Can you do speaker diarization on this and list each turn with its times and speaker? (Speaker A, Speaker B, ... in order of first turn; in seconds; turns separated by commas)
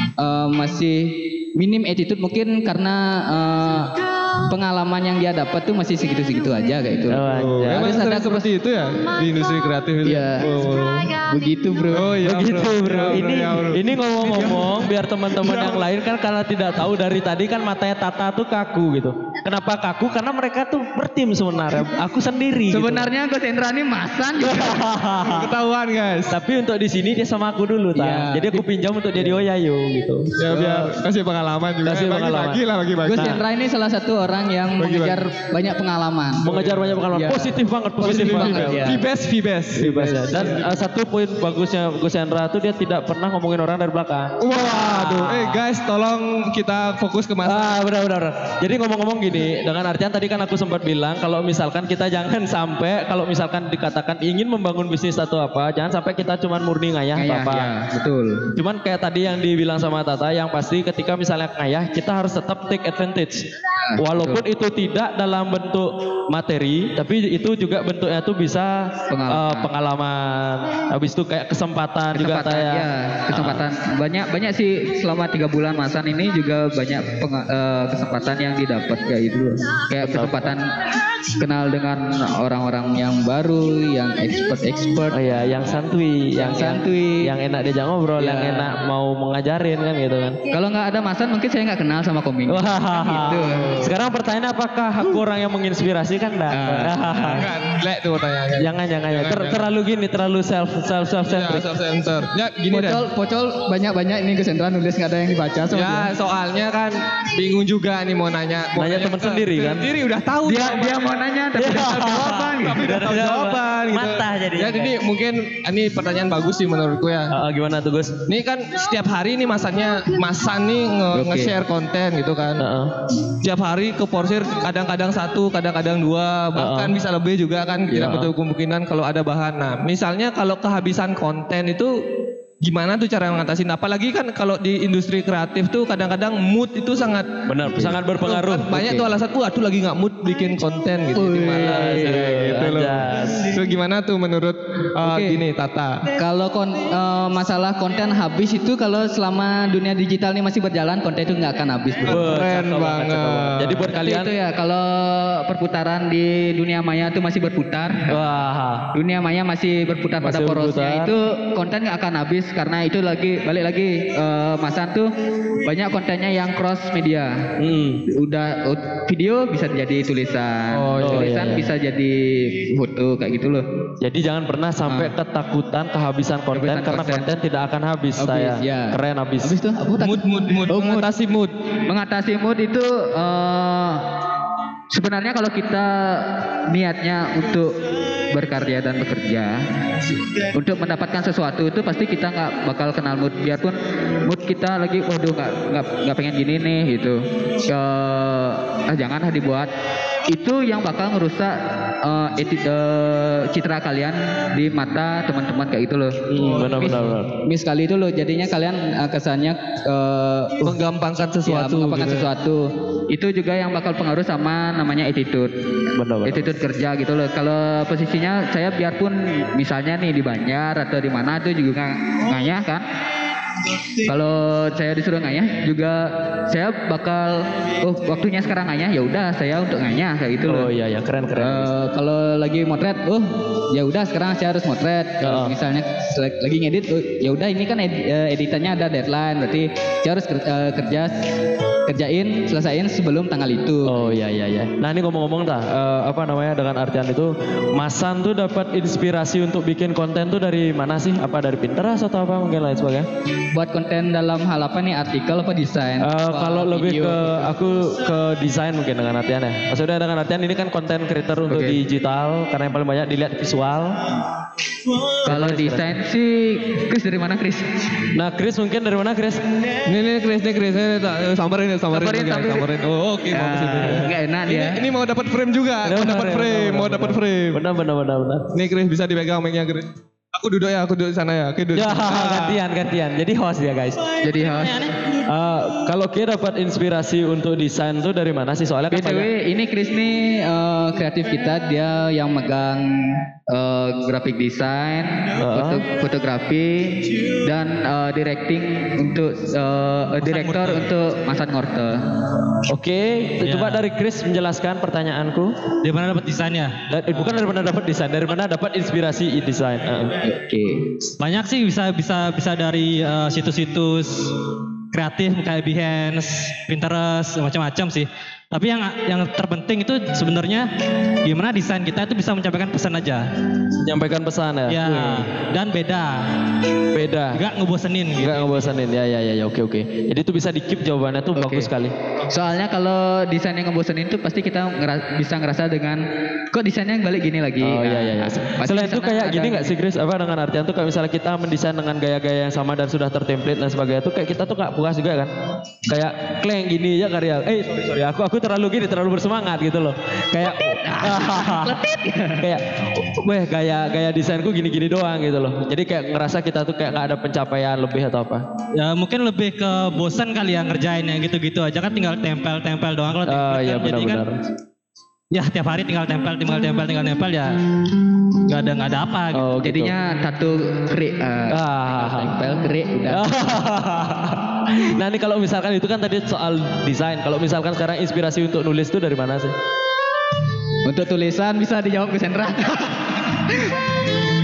Speaker A: 0.2-8.5, Speaker B: 7.1-8.0, Speaker C: 7.3-11.1, Speaker A: 10.0-10.6, Speaker A: 11.1-12.2, Speaker C: 11.9-14.7, Speaker B: 12.2-23.1, Speaker C: 15.4-15.9, Speaker A: 22.7-24.9, Speaker B: 24.4-25.5, Speaker C: 25.2-26.3, Speaker B: 26.3-30.9, Speaker A: 27.9-28.6, Speaker C: 30.3-33.4, Speaker B: 31.8-32.6, Speaker A: 33.0-36.5, Speaker B: 33.1-33.4, Speaker C: 34.8-35.2, Speaker B: 36.4-39.0, Speaker A: 37.1-39.0, Speaker C: 38.0-40.7, Speaker B: 39.8-45.6, Speaker C: 44.4-47.7, Speaker B: 47.4-57.7, Speaker A: 57.1-58.5, Speaker B: 58.5-63.5, Speaker A: 63.8-64.4, Speaker B: 64.0-73.6, Speaker A: 69.1-69.7, Speaker A: 72.1-85.2, Speaker B: 80.0-80.6, Speaker B: 85.1-90.4, Speaker A: 86.4-87.3, Speaker A: 88.2-88.7, Speaker A: 90.5-93.9, Speaker B: 92.5-97.5, Speaker A: 96.5-97.4, Speaker C: 97.4-99.7, Speaker B: 98.6-101.7, Speaker C: 101.2-103.0, Speaker A: 102.7-106.1, Speaker C: 105.7-111.2, Speaker B: 108.8-109.9, Speaker A: 110.4-112.8, Speaker B: 111.5-115.0, Speaker C: 112.3-117.3, Speaker B: 117.3-118.2, Speaker C: 118.3-122.6, Speaker A: 121.1-121.5, Speaker B: 122.6-122.9, Speaker C: 123.3-131.9, Speaker B: 126.5-127.0, Speaker B: 128.0-128.3, Speaker C: 132.6-137.3, Speaker B: 137.4-138.7, Speaker C: 138.2-146.0, Speaker A: 138.7-139.1, Speaker A: 141.1-142.3, Speaker B: 141.6-143.5, Speaker A: 145.0-145.4, Speaker A: 146.1-152.3, Speaker C: 152.0-153.8, Speaker B: 152.0-154.3, Speaker A: 153.9-158.2, Speaker B: 158.1-158.9, Speaker A: 158.9-167.5, Speaker B: 160.2-161.1, Speaker B: 167.6-168.0, Speaker A: 168.0-173.6, Speaker B: 170.9-171.7, Speaker B: 174.0-179.5, Speaker A: 174.9-175.1, Speaker A: 176.5-177.3, Speaker A: 178.2-181.1, Speaker C: 180.0-181.5, Speaker A: 181.8-184.1, Speaker A: 184.9-189.6, Speaker A: 190.5-199.7, Speaker A: 200.3-210.8, Speaker B: 206.3-207.3, Speaker C: 210.6-212.3, Speaker A: 211.4-215.5, Speaker B: 215.9-216.5, Speaker A: 216.2-222.8, Speaker A: 224.0-230.7, Speaker B: 230.4-231.7, Speaker A: 231.4-241.2, Speaker B: 235.2-235.5, Speaker A: 241.9-244.2, Speaker B: 243.8-253.1, Speaker A: 253.5-257.5, Speaker B: 256.0-264.0, Speaker A: 261.5-261.8, Speaker B: 265.2-265.9, Speaker A: 265.2-267.8, Speaker B: 268.1-269.7, Speaker C: 269.8-277.6, Speaker A: 271.9-272.6, Speaker A: 273.3-274.8, Speaker B: 275.8-278.5, Speaker C: 278.5-282.6, Speaker B: 281.7-284.1, Speaker A: 284.2-284.9, Speaker D: 284.3-285.1, Speaker B: 285.2-289.3, Speaker A: 288.9-302.0, Speaker B: 295.4-295.9, Speaker D: 300.2-300.9, Speaker B: 302.7-305.6, Speaker D: 303.4-303.8, Speaker D: 305.8-306.8, Speaker B: 306.9-310.1, Speaker A: 310.2-310.8, Speaker D: 311.2-314.4, Speaker D: 314.9-320.7, Speaker D: 321.2-323.3, Speaker B: 323.8-325.0, Speaker D: 324.7-326.3, Speaker A: 324.9-325.2, Speaker B: 326.9-327.4, Speaker D: 327.3-328.7, Speaker B: 328.2-331.9, Speaker A: 331.3-331.7, Speaker A: 332.3-339.7, Speaker B: 337.6-345.3, Speaker B: 345.8-351.8, Speaker A: 350.8-352.5, Speaker B: 352.4-358.4, Speaker D: 358.8-364.2, Speaker B: 363.2-364.4, Speaker D: 365.3-369.4, Speaker B: 369.3-369.9, Speaker A: 369.6-373.3, Speaker B: 371.5-372.4, Speaker B: 373.1-379.6, Speaker A: 380.8-383.8